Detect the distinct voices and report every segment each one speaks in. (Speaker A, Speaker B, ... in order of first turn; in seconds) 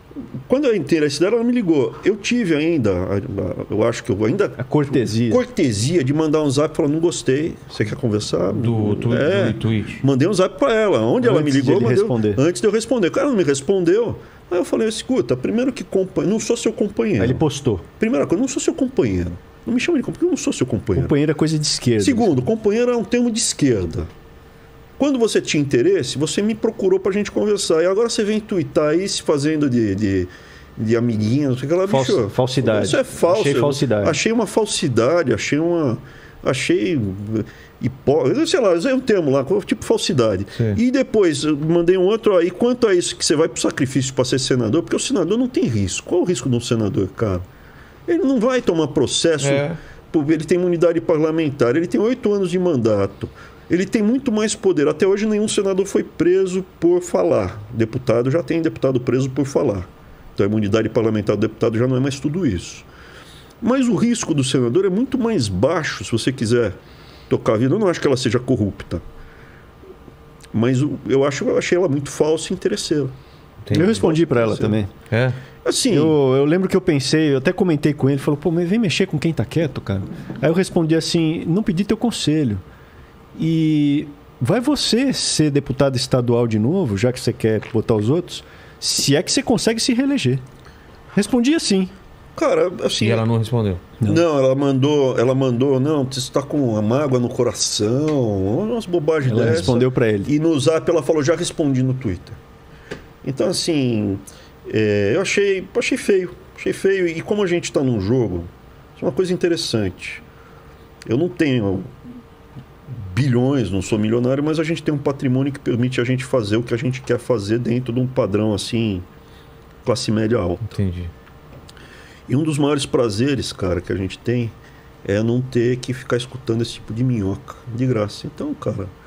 Speaker A: 0.5-17.4, 18.0-21.1, 22.0-24.1, 25.0-47.5, 48.1-62.9, 63.6-66.8, 67.3-69.0, 70.5-73.1, 73.7-74.8, 75.6-76.2, 92.4-93.3, 94.0-102.4, 103.2-110.2, 111.1-111.9, 112.9-119.1, 119.8-120.7, 122.3-128.9
Speaker B: 4.6-5.4, 11.2-12.4, 17.2-17.9, 20.9-22.4, 31.9-34.2, 73.7-74.9, 75.9-82.6, 83.4-90.4, 91.1-91.9, 99.2-100.3
Speaker C: 8.5-10.0, 40.5-40.8, 49.4-49.8, 73.7-74.1, 75.1-75.4, 93.0-93.8, 120.7-121.1